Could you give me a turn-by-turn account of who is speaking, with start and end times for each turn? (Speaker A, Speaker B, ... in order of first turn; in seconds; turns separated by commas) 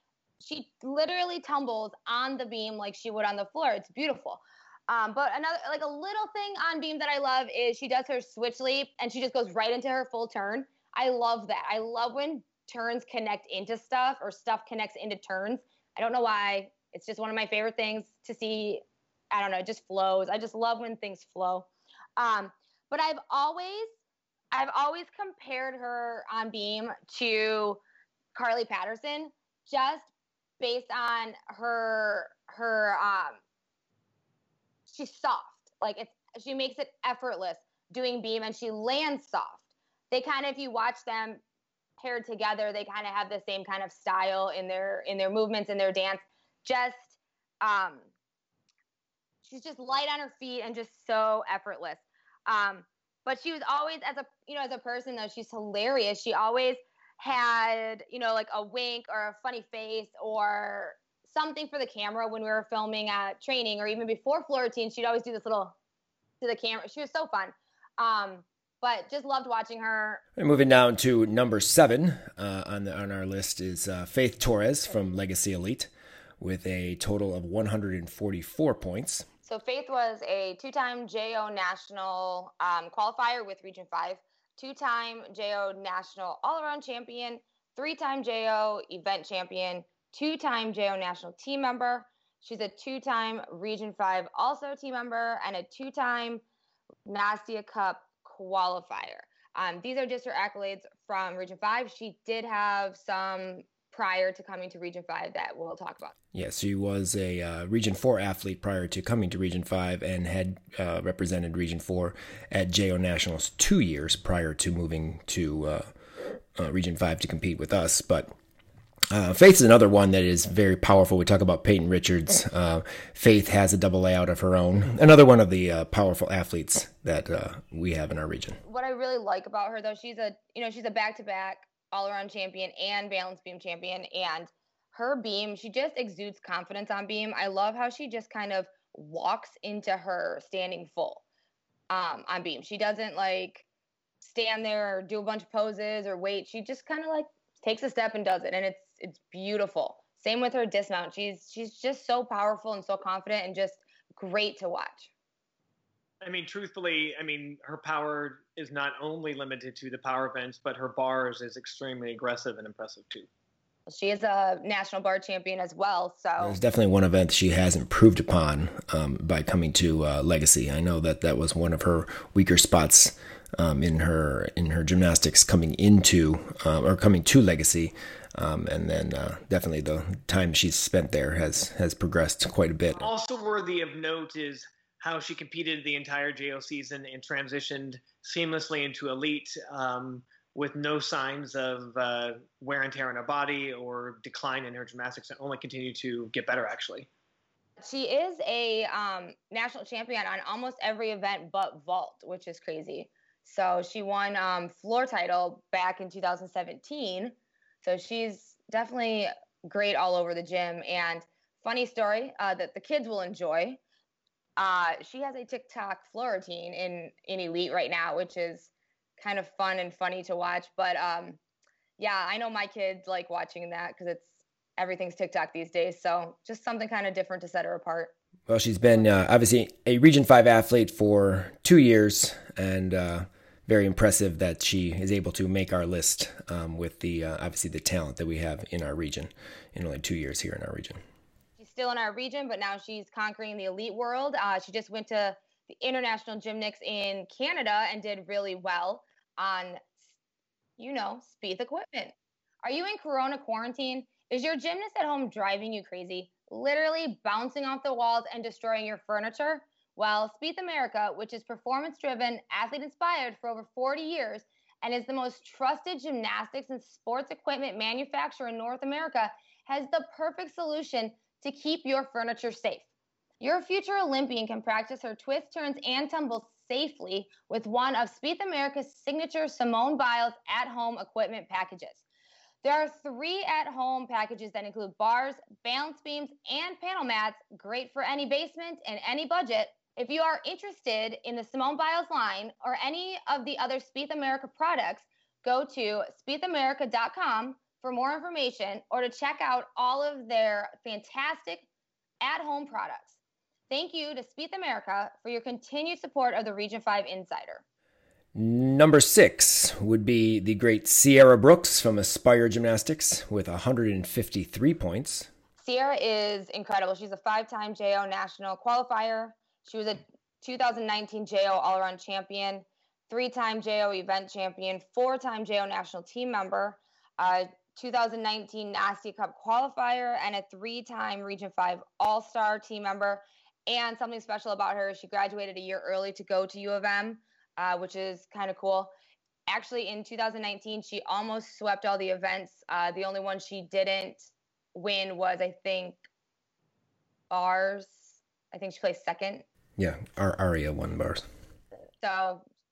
Speaker A: 0.4-23.9, Speaker A: 24.5-27.8, Speaker A: 28.4-33.4, Speaker A: 34.9-39.6, Speaker A: 40.1-41.4, Speaker A: 42.0-48.1, Speaker A: 49.4-65.8, Speaker A: 66.4-70.2, Speaker B: 70.4-75.9, Speaker B: 76.4-79.3, Speaker A: 79.5-96.4, Speaker A: 97.1-106.2, Speaker B: 106.3-115.9, Speaker B: 116.6-118.3, Speaker B: 119.1-128.6, Speaker A: 128.7-141.2, Speaker A: 141.9-143.7, Speaker A: 144.2-155.1, Speaker C: 156.2-163.3, Speaker A: 163.9-166.6, Speaker B: 166.4-183.1, Speaker C: 183.0-197.1, Speaker A: 197.8-213.8, Speaker A: 214.6-221.4, Speaker A: 222.0-228.1, Speaker B: 228.5-241.0, Speaker A: 241.6-250.1, Speaker A: 250.8-272.9, Speaker A: 273.4-282.0, Speaker A: 282.6-301.6, Speaker A: 302.2-303.2, Speaker A: 303.7-307.6, Speaker B: 308.4-315.3, Speaker A: 315.6-338.9, Speaker A: 339.5-346.0, Speaker A: 347.3-349.4, Speaker B: 349.8-351.2, Speaker A: 352.0-352.4